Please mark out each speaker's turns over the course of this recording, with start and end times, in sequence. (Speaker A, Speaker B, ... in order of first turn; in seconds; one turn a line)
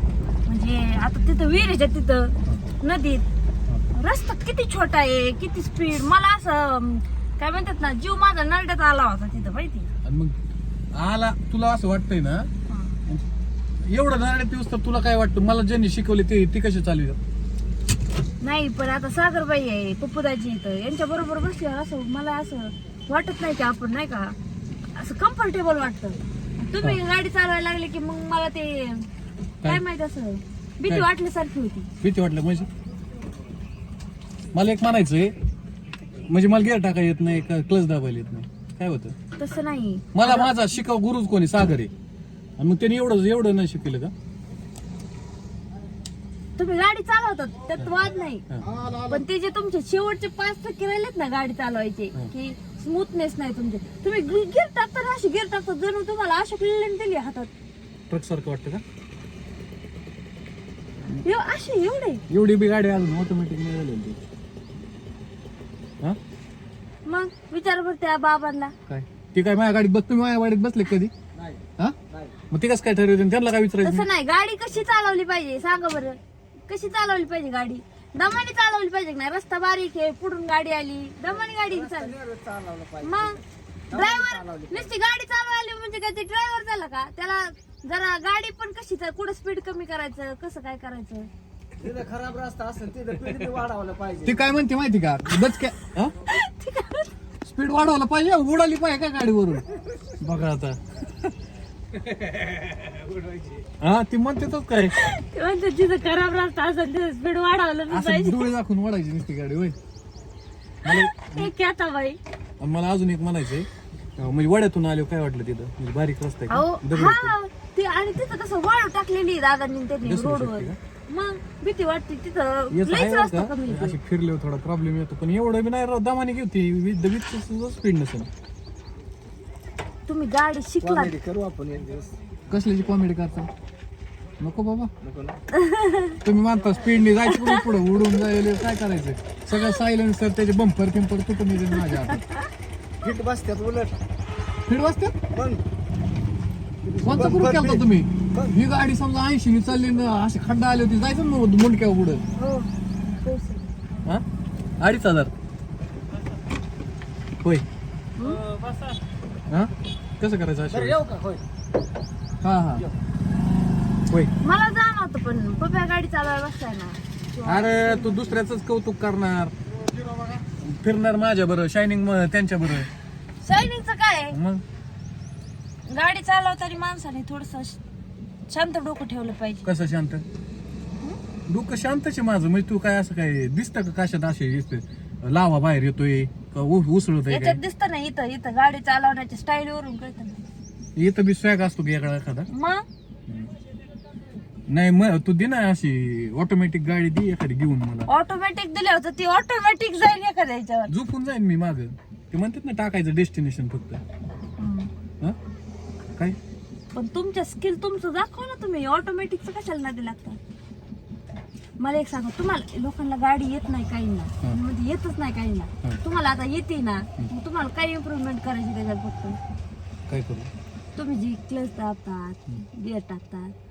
Speaker A: 0.5-3.2
Speaker A: 3.9-9.9
Speaker B: 10.0-10.3
Speaker B: 10.9-12.5
Speaker A: 12.7-13.0
Speaker B: 13.8-17.2
Speaker A: 18.4-24.4
Speaker A: 24.9-29.1
Speaker A: 29.6-31.9
Speaker B: 32.0-32.7
Speaker B: 34.5-35.3
Speaker B: 36.3-39.1
Speaker A: 39.4-40.5
Speaker B: 40.1-41.9
Speaker B: 42.6-44.1
Speaker A: 46.6-48.4
Speaker A: 49.0-57.5
Speaker B: 58.1-58.8
Speaker A: 61.2-62.2
Speaker B: 62.3-64.2
Speaker A: 67.1-68.7
Speaker B: 68.9-71.1
Speaker C: 71.3-72.3
Speaker B: 72.5-74.1
Speaker A: 73.8-82.2
Speaker C: 81.2-84.9
Speaker A: 83.0-91.3
Speaker C: 91.8-94.4
Speaker B: 94.2-96.1
Speaker A: 96.3-97.1
Speaker B: 97.4-99.7
Speaker B: 100.2-100.8
Speaker B: 103.8-105.0
Speaker A: 105.0-108.5
Speaker B: 107.9-109.8
Speaker B: 110.8-111.5
Speaker A: 110.8-112.2
Speaker B: 112.6-117.3
Speaker A: 116.5-124.0
Speaker B: 120.0-120.8
Speaker B: 122.7-128.3
Speaker A: 130.1-131.1
Speaker C: 130.8-132.2
Speaker B: 132.5-133.5
Speaker B: 134.4-134.9
Speaker C: 135.0-135.4
Speaker A: 135.5-136.2
Speaker B: 136.2-142.2
Speaker A: 137.3-137.6
Speaker A: 142.1-142.4
Speaker C: 143.0-144.0
Speaker B: 144.7-145.1
Speaker C: 145.3-145.6
Speaker C: 146.8-148.5
Speaker B: 147.0-152.2
Speaker A: 152.4-153.7
Speaker B: 154.8-155.3
Speaker A: 158.2-158.4
Speaker C: 158.6-158.9
Speaker B: 159.5-161.0
Speaker C: 160.7-161.4
Speaker B: 162.4-162.8
Speaker A: 164.4-168.2
Speaker B: 167.4-169.5
Speaker B: 170.5-172.9
Speaker A: 173.4-174.4
Speaker B: 174.3-174.6
Speaker A: 175.8-177.8
Speaker A: 178.5-179.7
Speaker B: 179.6-180.2
Speaker B: 181.5-187.6
Speaker A: 187.3-190.4
Speaker B: 190.9-192.5
Speaker A: 192.5-192.8
Speaker B: 194.7-198.1
Speaker A: 198.1-200.9
Speaker B: 200.9-204.0
Speaker A: 204.6-204.9
Speaker A: 206.9-210.4
Speaker A: 211.8-219.4
Speaker B: 220.1-220.5
Speaker A: 220.9-223.5